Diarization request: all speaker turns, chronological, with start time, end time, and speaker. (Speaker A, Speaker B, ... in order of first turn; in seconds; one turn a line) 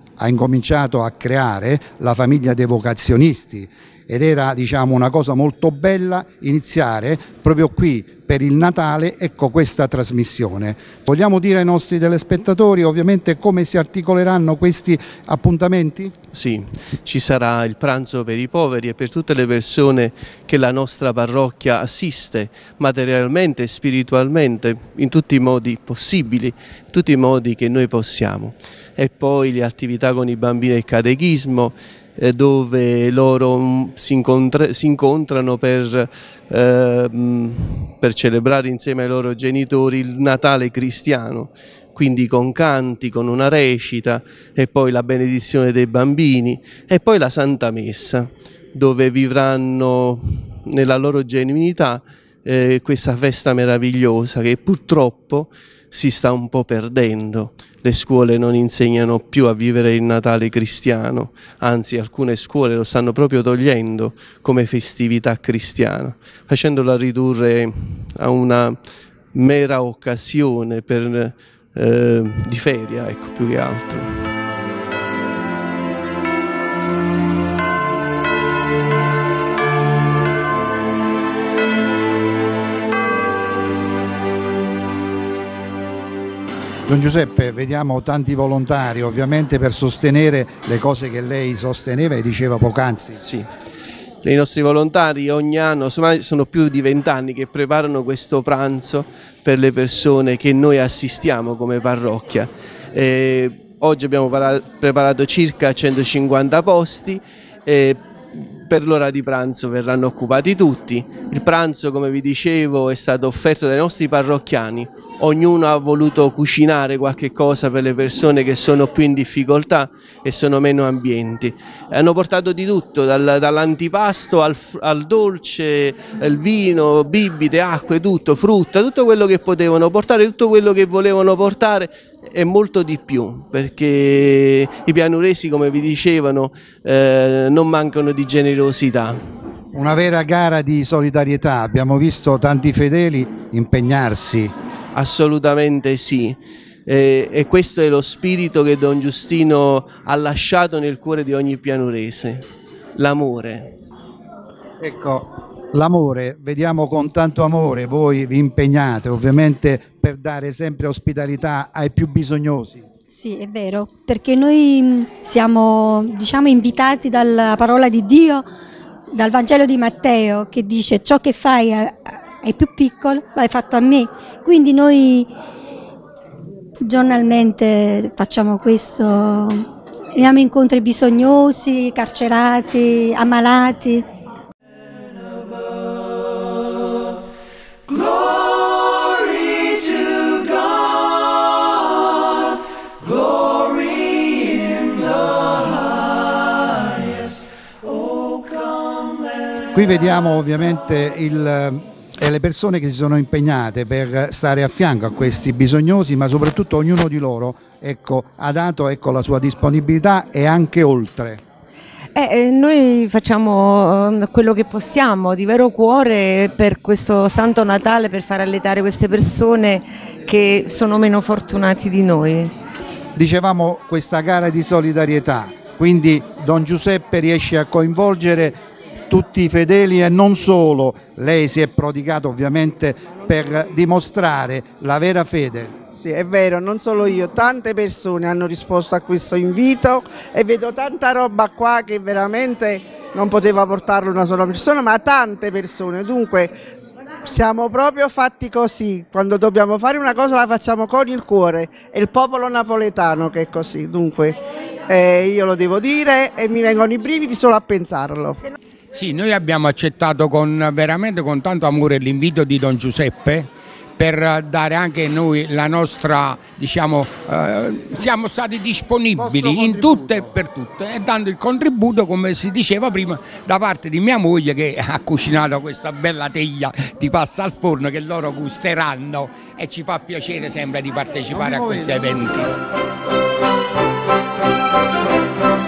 Speaker A: 0.2-16.1
Speaker B: 16.3-68.8
Speaker B: 69.3-74.3
Speaker A: 86.9-93.2
Speaker B: 93.2-93.5
Speaker B: 94.2-139.2
Speaker A: 139.7-144.5
Speaker B: 144.9-152.4
Speaker B: 153.0-153.7
Speaker A: 154.8-162.8
Speaker C: 163.1-168.4
Speaker C: 169.1-175.3
Speaker C: 176.8-184.0
Speaker A: 199.7-211.4
Speaker D: 212.1-222.5
Speaker A: 223.1-235.7
Speaker E: 236.0-246.5
Speaker E: 247.2-258.4
Speaker F: 258.9-282.5
Speaker A: 269.2-270.3
Speaker A: 281.3-282.0